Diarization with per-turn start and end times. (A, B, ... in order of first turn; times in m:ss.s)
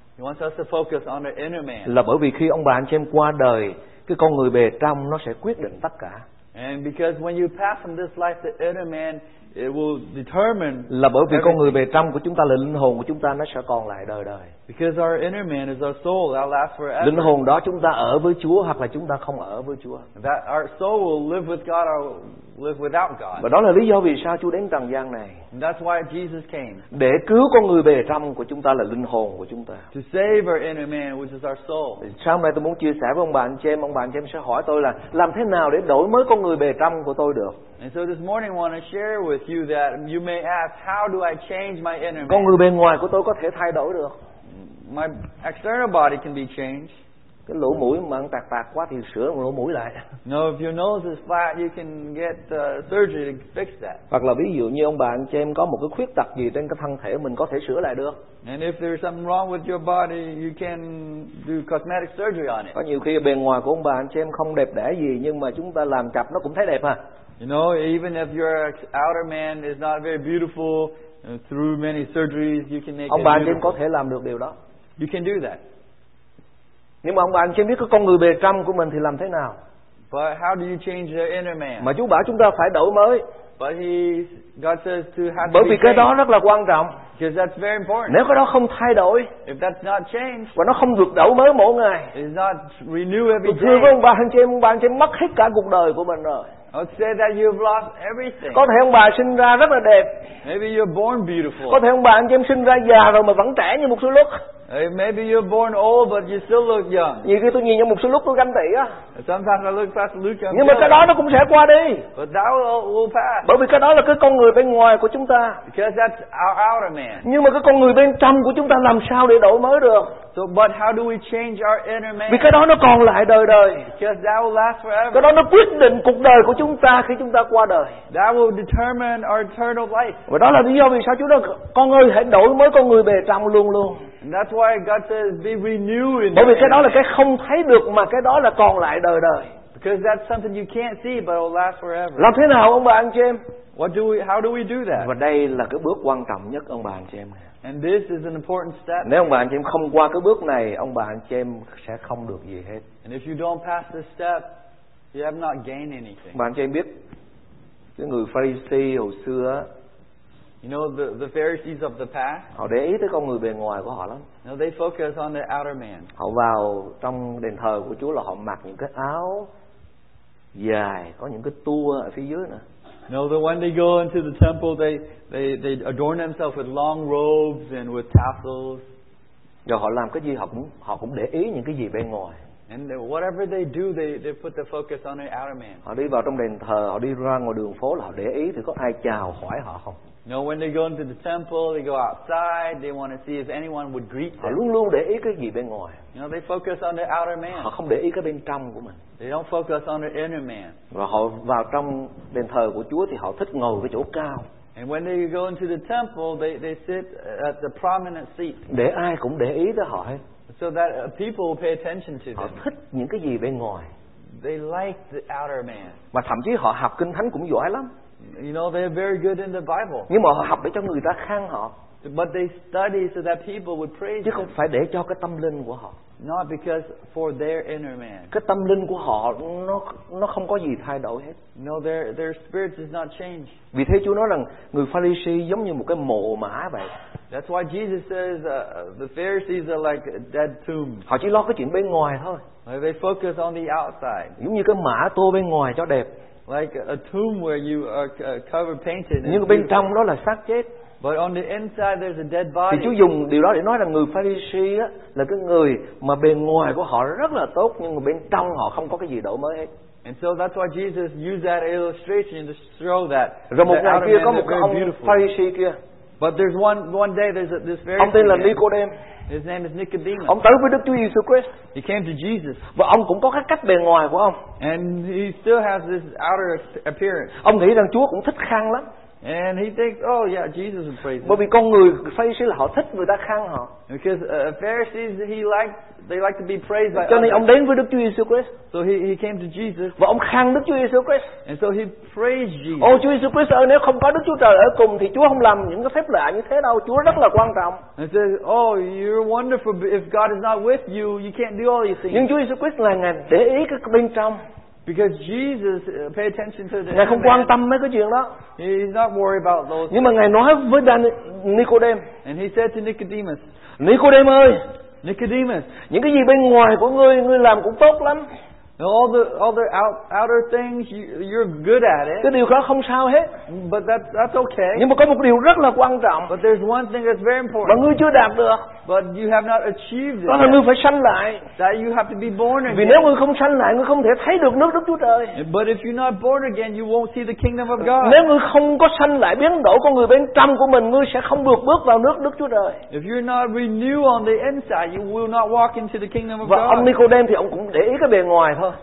0:00.2-0:01.9 A
0:01.8-0:06.2 B
0:06.5-0:11.8 A
0:10.9-0:14.5 B
0:14.7-0:17.3 A
0:17.0-0:20.0 B
0:20.2-0:23.5 A
0:23.4-0:25.4 B
0:25.5-0:26.8 A
0:26.9-0:29.8 B
0:29.9-0:32.0 A
0:32.0-0:37.6 B
0:37.8-0:42.5 A
0:42.2-0:44.1 B
0:44.5-0:46.9 A
0:47.5-0:50.0 B
0:50.2-0:54.0 A
0:54.1-0:58.2 B
0:58.4-1:02.7 A
1:02.7-1:07.0 B
1:07.4-1:13.8 A
1:13.1-1:14.5 B
1:15.0-1:15.6 A
1:17.0-1:19.6 B
1:20.1-1:21.9 A
1:21.8-1:23.2 B
1:23.6-1:26.1 A
1:25.4-1:27.0 B
1:27.2-1:28.2 A
1:28.1-1:29.3 B
1:29.4-1:30.5 A
1:30.5-1:32.1 B
1:32.1-1:34.0 A
1:33.4-1:36.4 B
1:36.7-1:38.6 A
1:38.5-1:40.3 B
1:40.4-1:41.8 A
1:41.7-1:44.3 B
1:44.7-1:47.3 A
1:47.2-1:48.9 B
1:49.1-1:51.1 A
1:50.5-1:52.1 B
1:52.1-1:53.5 A
1:53.4-1:55.6 B
1:55.7-1:57.3 A
1:57.2-2:00.1 B
2:00.3-2:02.6 A
2:02.3-2:03.9 B
2:03.9-2:05.3 A
2:05.1-2:08.0 B
2:08.1-2:10.2 A
2:10.3-2:14.0 B
2:14.2-2:17.0 A
2:16.3-2:19.5 B
2:19.7-2:22.3 A
2:22.2-2:23.4 B
2:23.8-2:25.1 A
2:25.0-2:27.4 B
2:27.6-2:29.4 A
2:29.0-2:32.8 B
2:33.0-2:34.6 A
2:35.1-2:36.4 A
2:36.3-2:36.9 B
2:38.0-2:39.7 B
2:40.6-2:42.5 A
2:42.5-2:44.3 B
2:44.4-2:46.1 A
2:46.2-2:49.5 B
2:50.5-2:52.6 B
2:53.1-2:58.9 A
2:59.6-3:02.4 B
3:02.7-3:05.8 A
3:05.8-3:10.0 B
3:10.2-3:14.6 A
3:14.4-3:16.0 B
3:16.1-3:17.7 A
3:17.5-3:19.0 B
3:19.2-3:20.8 A
3:20.9-3:24.4 B
3:24.8-3:28.6 A
3:28.7-3:30.2 B
3:30.5-3:32.6 A
3:32.4-3:33.9 B
3:34.4-3:36.0 A
3:36.1-3:37.9 B
3:38.2-3:40.1 A
3:40.1-3:41.7 B
3:42.0-3:44.5 A
3:44.2-3:45.9 B
3:46.2-3:48.3 A
3:48.3-3:51.4 B
3:51.6-3:53.6 A
3:53.7-3:56.9 B
3:57.3-4:01.0 A
4:01.1-4:02.4 B
4:02.6-4:04.4 A
4:04.4-4:06.1 B
4:06.5-4:09.7 A
4:09.2-4:10.7 B
4:11.0-4:13.0 A
4:12.7-4:19.7 B
4:20.0-4:25.2 A
4:23.5-4:25.8 B
4:26.2-4:28.6 A
4:28.0-4:28.9 B
4:29.3-4:30.4 A
4:30.2-4:31.6 B
4:31.7-4:32.6 A
4:32.7-4:34.4 B
4:34.6-4:37.4 A
4:37.4-4:38.8 B
4:39.2-4:41.4 A
4:41.2-4:43.7 B
4:43.9-4:47.5 A
4:47.0-4:48.5 B
4:48.7-4:50.0 A
4:50.0-4:51.3 B
4:51.4-4:53.0 A
4:52.8-4:57.8 B
4:58.0-5:02.3 A
5:02.1-5:04.4 B
5:04.8-5:07.5 A
5:06.9-5:08.3 B
5:08.6-5:10.2 A
5:09.9-5:12.0 B
5:12.2-5:13.4 A
5:13.8-5:14.6 B
5:15.0-5:15.7 A
5:15.9-5:18.2 B
5:18.8-5:22.3 A
5:22.2-5:23.3 B
5:23.5-5:24.8 A
5:24.7-5:26.3 B
5:26.3-5:27.8 A
5:27.6-5:28.7 B
5:28.8-5:30.6 A
5:30.2-5:31.4 B
5:31.6-5:33.1 A
5:32.7-5:35.4 B
5:35.3-5:38.2 A
5:37.8-5:42.8 B
5:42.9-5:46.9 A
5:46.4-5:48.7 B